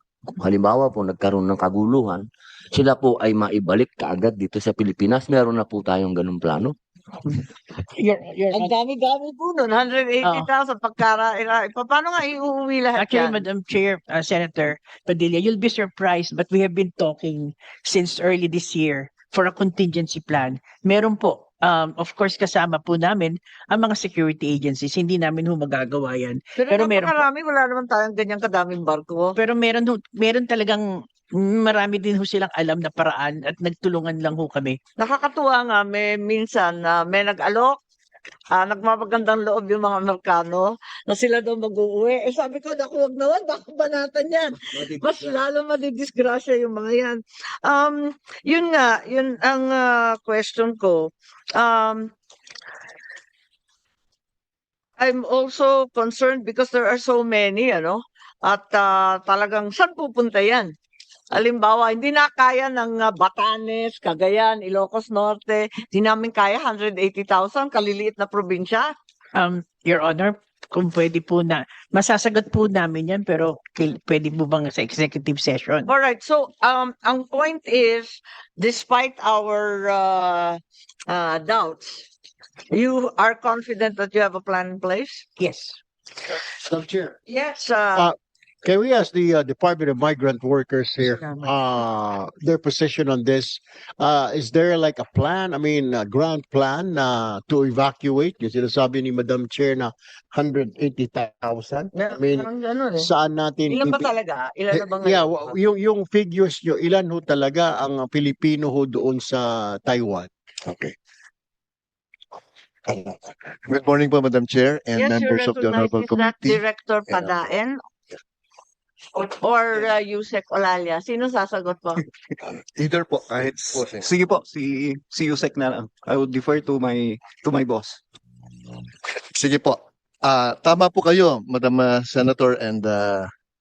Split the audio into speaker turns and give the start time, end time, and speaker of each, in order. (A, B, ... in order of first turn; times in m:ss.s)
0:00.4-0:06.7 A
0:08.0-0:08.7 B
0:08.5-0:13.4 C
0:10.2-0:10.5 B
0:13.0-0:27.2 B
0:26.6-0:29.4 C
0:29.4-0:34.8 B
0:35.0-0:37.8 C
0:38.5-0:52.1 C
0:55.0-1:00.7 C
1:01.3-1:08.9 C
1:09.4-1:15.9 B
1:15.9-1:22.1 C
1:22.7-1:25.2 C
1:25.4-1:25.8 B
1:26.6-1:27.1 D
1:27.3-1:28.1 C
1:28.0-1:44.1 D
1:31.2-1:31.5 C
1:42.0-1:43.1 C
1:43.7-1:45.5 C
1:44.7-1:50.3 D
1:53.7-1:57.3 E
1:55.0-1:57.8 C
1:59.2-2:02.0 C
2:02.8-2:04.1 E
2:03.4-2:08.0 F
2:09.3-2:13.3 E